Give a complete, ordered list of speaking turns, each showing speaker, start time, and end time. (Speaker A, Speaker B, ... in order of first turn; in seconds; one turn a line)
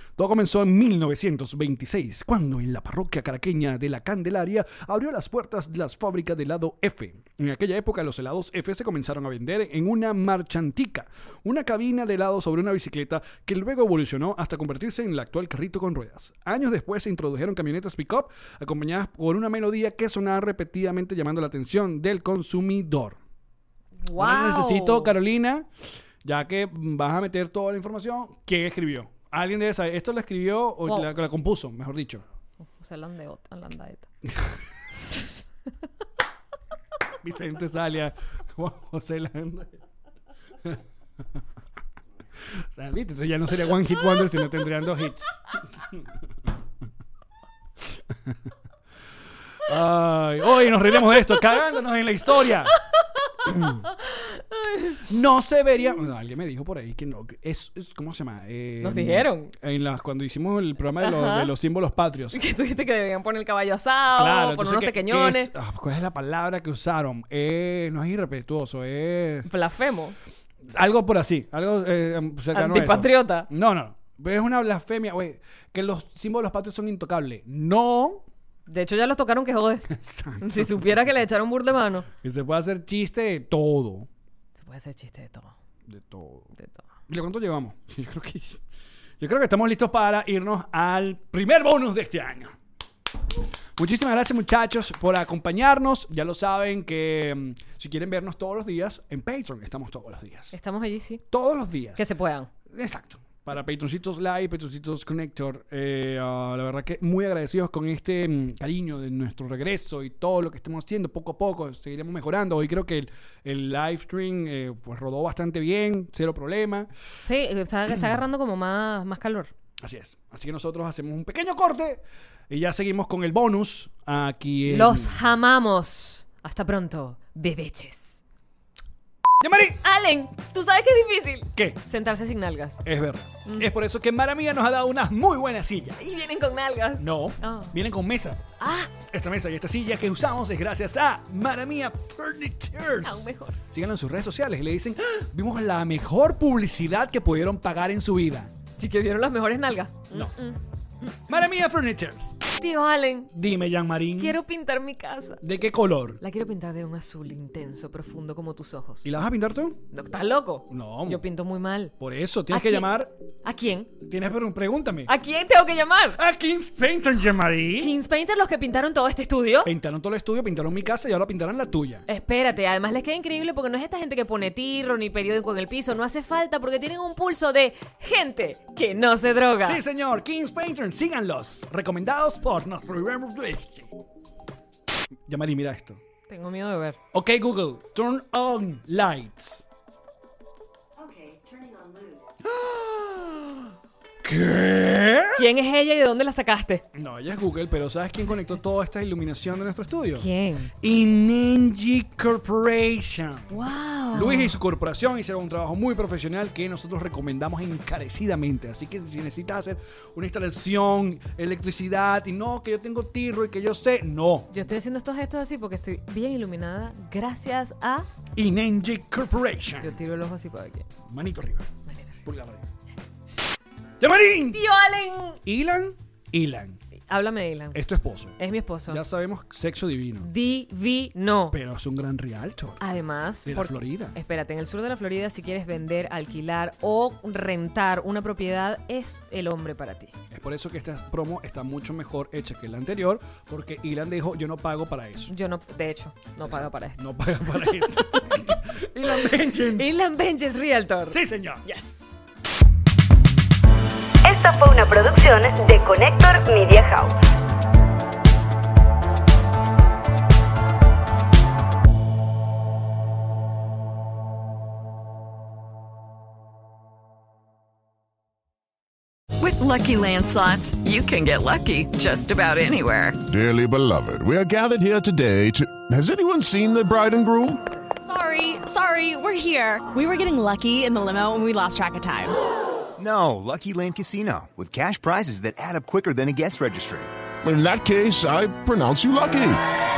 Speaker A: 0.2-23.2
Speaker B: 24.0-25.1
Speaker A: 24.1-25.7
Speaker A: 26.2-32.2
Speaker B: 32.8-34.1
Speaker A: 34.3-34.6
Speaker A: 37.2-39.8
Speaker A: 42.5-46.1
Speaker A: 48.1-48.4
Speaker A: 49.6-52.8
Speaker B: 53.3-55.1
Speaker A: 53.5-53.8
Speaker A: 55.0-62.4
Speaker B: 58.8-59.5
Speaker B: 61.0-61.5
Speaker B: 62.3-65.5
Speaker A: 64.1-69.5
Speaker B: 69.5-70.2
Speaker A: 70.6-78.2
Speaker B: 72.5-73.5
Speaker B: 78.7-82.1
Speaker A: 79.9-80.8
Speaker A: 82.2-84.1
Speaker B: 84.6-85.5
Speaker A: 85.9-86.5
Speaker B: 86.6-86.8
Speaker A: 87.1-88.6
Speaker A: 89.2-92.6
Speaker A: 93.8-100.5
Speaker B: 100.5-101.2
Speaker A: 101.3-102.0
Speaker B: 102.0-102.5
Speaker A: 102.7-116.9
Speaker B: 117.2-119.5
Speaker A: 119.8-125.2
Speaker B: 124.7-128.2
Speaker A: 129.4-129.8
Speaker B: 129.8-132.8
Speaker A: 132.8-136.2
Speaker B: 136.0-137.7
Speaker A: 137.0-138.4
Speaker B: 138.6-138.9
Speaker A: 139.0-148.5
Speaker B: 143.0-143.6
Speaker B: 148.8-151.2
Speaker A: 151.3-152.3
Speaker B: 152.6-153.3
Speaker A: 153.3-154.4
Speaker B: 154.2-155.4
Speaker A: 155.4-156.2
Speaker B: 156.2-159.1
Speaker A: 159.0-159.8
Speaker B: 159.9-161.9
Speaker A: 160.7-161.2
Speaker A: 162.0-163.1
Speaker B: 162.5-162.9
Speaker B: 163.4-163.9
Speaker A: 164.0-165.1
Speaker B: 165.1-166.2
Speaker A: 166.2-167.9
Speaker B: 167.8-169.7
Speaker A: 169.6-172.1
Speaker B: 172.1-179.8
Speaker A: 179.6-183.9
Speaker A: 185.3-186.0
Speaker B: 186.3-187.0
Speaker A: 187.1-189.7
Speaker B: 191.7-192.1
Speaker A: 192.4-193.7
Speaker A: 194.2-195.5
Speaker B: 195.4-196.8
Speaker A: 196.9-203.5
Speaker B: 200.2-200.7
Speaker B: 203.5-204.6
Speaker A: 204.1-214.5
Speaker B: 214.5-218.1
Speaker A: 218.3-219.9
Speaker B: 219.8-220.9
Speaker A: 221.1-221.7
Speaker B: 221.9-222.2
Speaker A: 222.2-222.7
Speaker A: 224.0-224.6
Speaker B: 224.5-225.4
Speaker A: 225.4-226.8
Speaker B: 227.1-227.8
Speaker A: 227.7-228.4
Speaker B: 228.4-229.0
Speaker A: 228.9-230.3
Speaker B: 230.2-231.6
Speaker A: 231.5-232.8
Speaker B: 232.8-240.1
Speaker A: 233.4-234.2
Speaker A: 240.3-245.3
Speaker B: 245.3-248.3
Speaker A: 246.4-249.9
Speaker B: 249.7-252.0
Speaker A: 251.1-251.6
Speaker C: 254.2-257.2
Speaker D: 269.4-273.3
Speaker E: 273.2-277.6
Speaker F: 278.0-282.4
Speaker G: 283.0-287.1
Speaker E: 287.4-289.6